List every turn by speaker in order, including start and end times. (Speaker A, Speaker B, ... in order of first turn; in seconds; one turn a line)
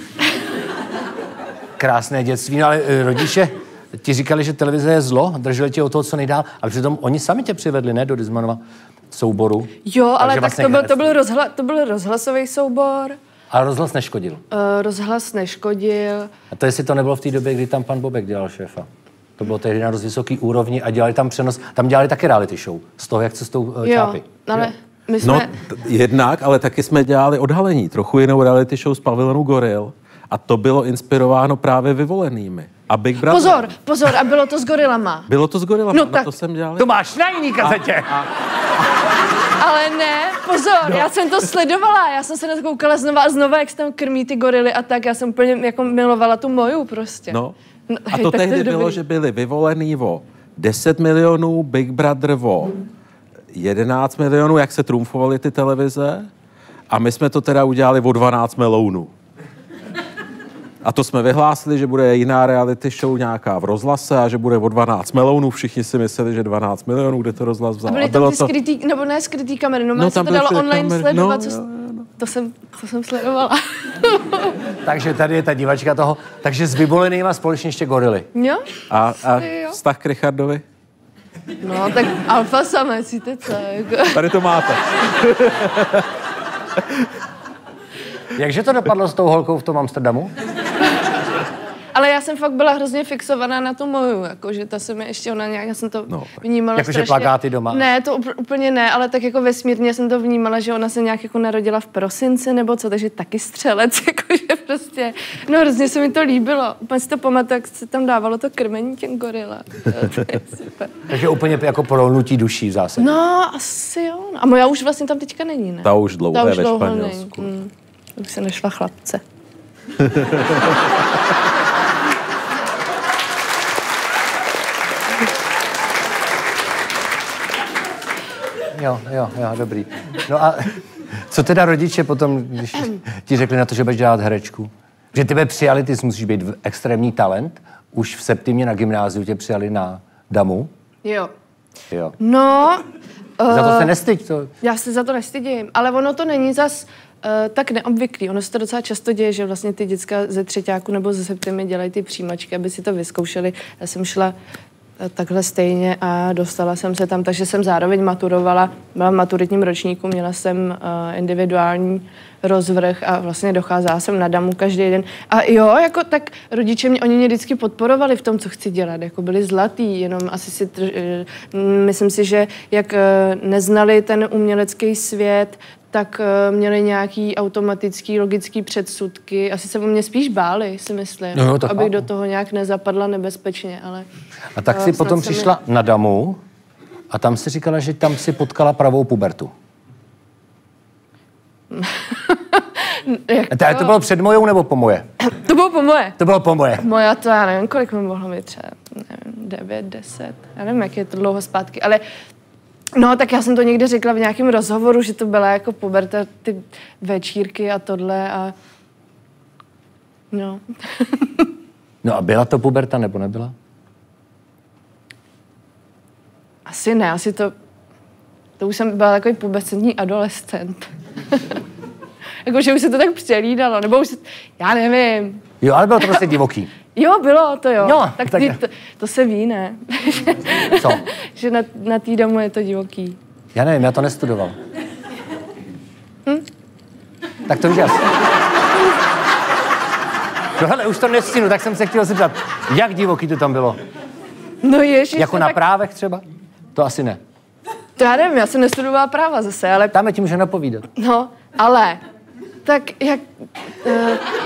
Speaker A: 1.8-11.1
Speaker B: 9.8-13.2
Speaker A: 13.5-14.4
Speaker B: 14.5-16.3
Speaker A: 16.5-24.7
Speaker B: 23.8-25.5
Speaker C: 25.2-33.7
Speaker B: 33.3-35.3
Speaker C: 35.3-36.9
Speaker B: 35.9-36.3
Speaker A: 36.8-38.2
Speaker C: 37.6-38.3
Speaker B: 39.5-49.0
Speaker C: 48.1-52.8
Speaker C: 53.5-56.3
Speaker C: 56.9-59.1
Speaker C: 60.8-68.5
Speaker B: 67.8-71.6
Speaker C: 70.0-72.1
Speaker B: 72.2-74.5
Speaker A: 74.8-78.3
Speaker B: 78.3-78.7
Speaker C: 78.9-80.6
Speaker B: 79.3-79.8
Speaker B: 81.6-84.3
Speaker C: 84.1-86.1
Speaker A: 88.3-90.3
Speaker B: 91.9-111.0
Speaker A: 96.7-97.8
Speaker A: 111.1-113.2
Speaker B: 113.0-119.2
Speaker C: 115.8-117.5
Speaker C: 120.1-120.4
Speaker A: 128.7-140.7
Speaker B: 141.0-141.3
Speaker A: 141.9-142.2
Speaker B: 142.2-142.8
Speaker B: 143.4-143.9
Speaker A: 143.5-144.5
Speaker B: 144.6-154.3
Speaker B: 155.0-184.1
Speaker A: 181.3-182.0
Speaker A: 184.5-186.4
Speaker B: 184.7-185.5
Speaker A: 187.1-189.5
Speaker B: 191.7-193.9
Speaker A: 193.5-195.1
Speaker B: 195.2-196.2
Speaker A: 196.2-196.8
Speaker B: 196.8-202.0
Speaker B: 202.9-208.5
Speaker B: 210.3-211.5
Speaker A: 212.0-213.5
Speaker B: 216.7-217.5
Speaker B: 218.6-221.6
Speaker B: 222.4-225.4
Speaker A: 225.6-226.7
Speaker B: 226.9-233.2
Speaker A: 227.8-228.6
Speaker A: 230.7-231.0
Speaker A: 233.5-234.6
Speaker A: 237.4-238.1
Speaker A: 240.6-243.8
Speaker B: 244.6-245.6
Speaker A: 245.2-247.2
Speaker B: 248.0-249.9
Speaker A: 249.9-250.9
Speaker B: 250.9-252.0
Speaker B: 252.6-253.2
Speaker B: 253.8-254.3